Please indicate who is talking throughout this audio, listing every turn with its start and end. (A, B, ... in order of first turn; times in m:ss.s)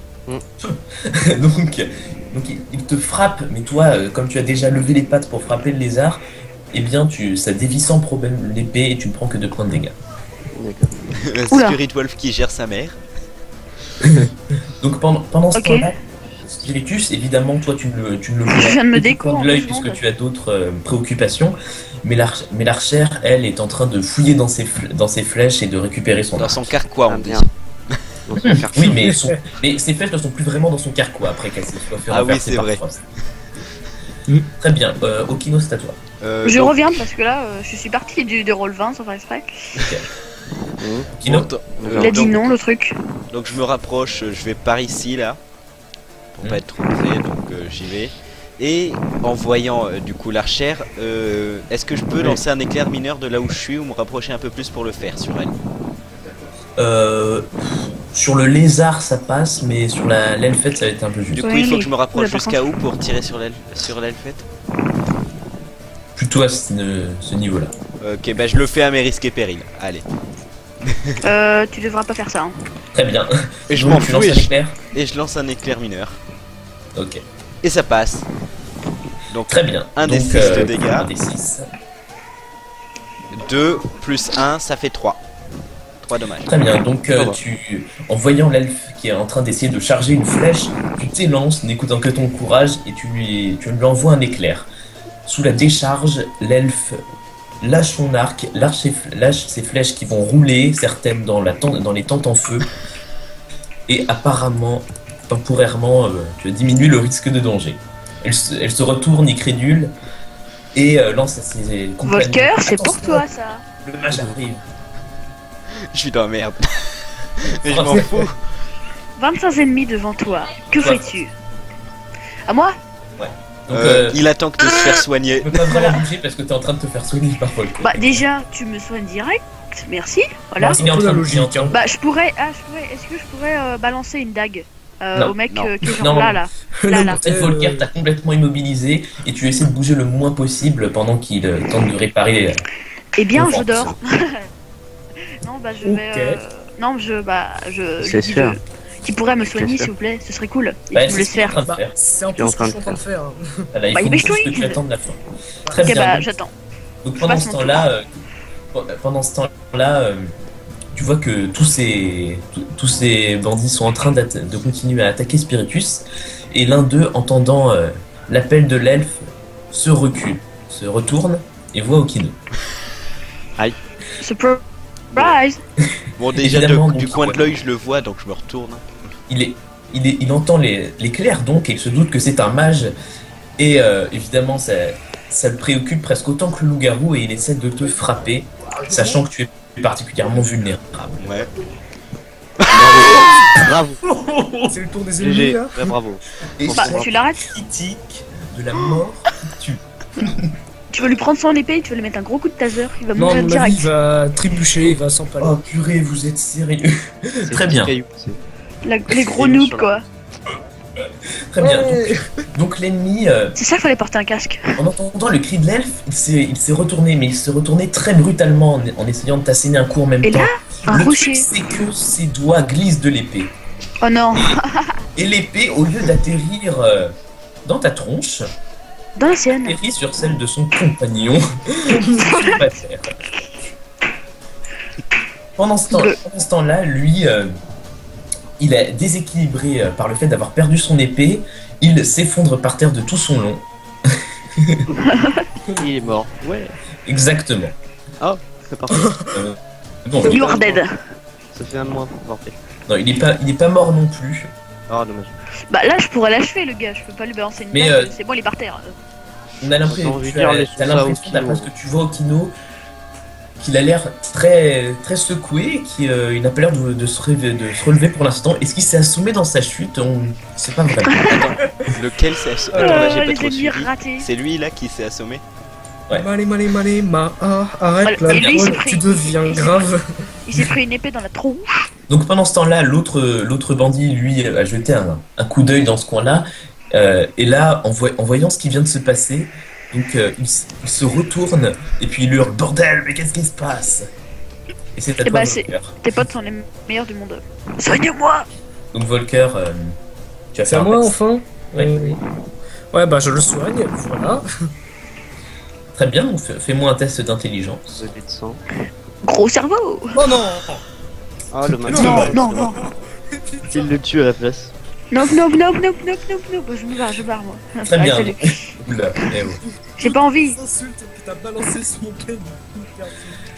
0:00.6-0:09.9 A
0:10.6-0:11.0 B
0:11.3-0:13.0 C
0:11.5-0:11.8 D
0:14.8-0:16.0 A
0:15.6-0:15.9 D
0:16.5-0:26.7 A
0:18.5-0:20.0 D
0:26.4-0:27.5 C
0:27.1-0:27.5 B
0:28.3-0:29.0 B
0:28.4-0:33.0 A
0:29.0-0:29.4 E
0:32.1-0:32.8 C
0:34.6-0:36.0 A
0:36.2-0:37.0 C
0:36.4-0:39.5 D
0:40.8-0:41.1 B
0:41.2-0:42.6 C
0:41.2-0:41.5 A
0:41.8-0:42.2 B
0:41.9-0:43.0 D
0:43.3-0:45.4 C
0:46.4-0:55.5 C
0:56.8-1:01.4 A
1:01.3-1:04.4 C
1:01.4-1:02.7 D
1:06.2-1:07.7 A
1:08.0-1:10.0 C
1:11.2-1:12.5 D
1:12.9-1:14.8 A
1:13.7-1:16.2 C
1:17.0-1:17.2 A
1:17.6-1:18.3 C
1:19.3-1:21.1 C
1:19.5-1:21.7 A
1:23.3-1:25.2 C
1:26.0-1:26.5 C
1:26.5-1:34.7 A
1:35.3-1:37.0 A
1:37.6-1:42.7 A
1:43.9-1:49.9 A
1:50.7-1:53.2 A
1:52.0-1:53.6 D
1:53.8-1:54.6 A
1:55.9-1:56.7 C
1:57.5-1:58.4 C
1:57.7-1:58.1 A
1:59.2-2:01.3 D
2:00.7-2:01.2 A
2:03.2-2:04.2 A
2:03.7-2:05.7 C
2:05.4-2:08.2 A
2:05.7-2:06.0 D
2:07.8-2:10.8 D
2:10.6-2:11.8 E
2:10.7-2:11.8 A
2:11.7-2:17.2 D
2:16.0-2:16.4 A
2:16.8-2:17.9 E
2:17.2-2:22.6 A
2:23.2-2:24.4 D
2:23.3-2:24.0 A
2:25.4-2:31.6 D
2:25.8-2:26.4 E
2:28.0-2:28.6 B
2:29.6-2:29.9 B
2:30.9-2:32.0 A
2:31.6-2:33.4 E
2:32.4-2:33.0 B
2:33.7-2:36.3 A
2:33.9-2:34.8 D
2:35.7-2:35.9 E
2:35.8-2:36.5 D
2:37.0-2:38.1 A
2:37.2-2:37.9 D
2:38.7-2:40.3 A
2:40.9-2:52.4 A
2:54.2-2:54.6 D
2:55.1-2:55.6 D
2:56.2-2:59.1 C
2:56.4-2:57.4 A
2:59.3-3:02.9 A
3:03.6-3:11.4 A
3:08.9-3:09.2 E
3:11.2-3:11.5 C
3:12.7-3:14.0 B
3:12.8-3:13.1 C
3:14.1-3:14.7 A
3:14.7-3:15.9 E
3:15.2-3:17.1 B
3:16.6-3:20.5 A
3:16.7-3:17.5 D
3:20.9-3:23.9 D
3:23.1-3:25.6 E
3:24.9-3:26.9 A
3:27.5-3:28.4 B
3:27.5-3:27.9 A
3:28.8-3:30.0 D
3:29.2-3:30.0 B
3:31.5-3:33.6 A
3:31.6-3:32.2 E
3:33.6-3:34.6 D
3:34.8-3:43.6 A
3:40.2-3:41.5 D
3:44.0-3:44.9 D
3:45.2-3:47.1 A
3:47.6-3:48.5 A
3:49.2-3:49.8 D
3:49.6-3:53.1 A
3:51.9-3:52.6 E
3:52.2-3:52.7 D
3:55.6-3:57.6 A
3:55.9-3:56.2 D
3:58.6-4:03.7 A
4:05.1-4:05.4 D
4:05.8-4:06.7 B
4:07.1-4:07.8 A
4:08.2-4:09.1 B
4:09.0-4:09.4 E
4:09.3-4:10.4 A
4:10.2-4:10.8 B
4:10.3-4:10.9 D
4:11.5-4:12.6 B
4:12.9-4:14.5 A
4:14.9-4:15.4 B
4:15.7-4:18.9 D
4:17.7-4:18.1 A
4:19.6-4:22.5 A
4:19.8-4:21.7 B
4:23.6-4:31.2 A
4:31.3-4:35.4 C
4:31.6-4:31.9 E
4:32.7-4:33.2 E
4:32.7-4:34.3 D
4:36.1-4:40.7 E
4:38.0-4:39.9 D
4:38.3-4:38.7 A
4:40.5-4:41.9 D
4:42.1-4:54.1 A
4:55.0-4:56.0 A
4:55.2-4:58.5 D
4:58.9-5:00.0 A
5:00.5-5:01.1 A
5:00.6-5:02.2 E
5:01.7-5:02.1 A
5:02.9-5:04.4 E
5:06.0-5:07.8 A
5:07.9-5:08.6 B
5:09.2-5:10.2 D
5:10.2-5:10.8 E
5:11.5-5:12.6 B
5:11.8-5:14.0 E
5:12.0-5:12.8 D
5:13.7-5:14.7 B
5:15.1-5:18.8 D
5:17.8-5:19.6 A
5:19.5-5:23.4 E
5:20.0-5:20.6 D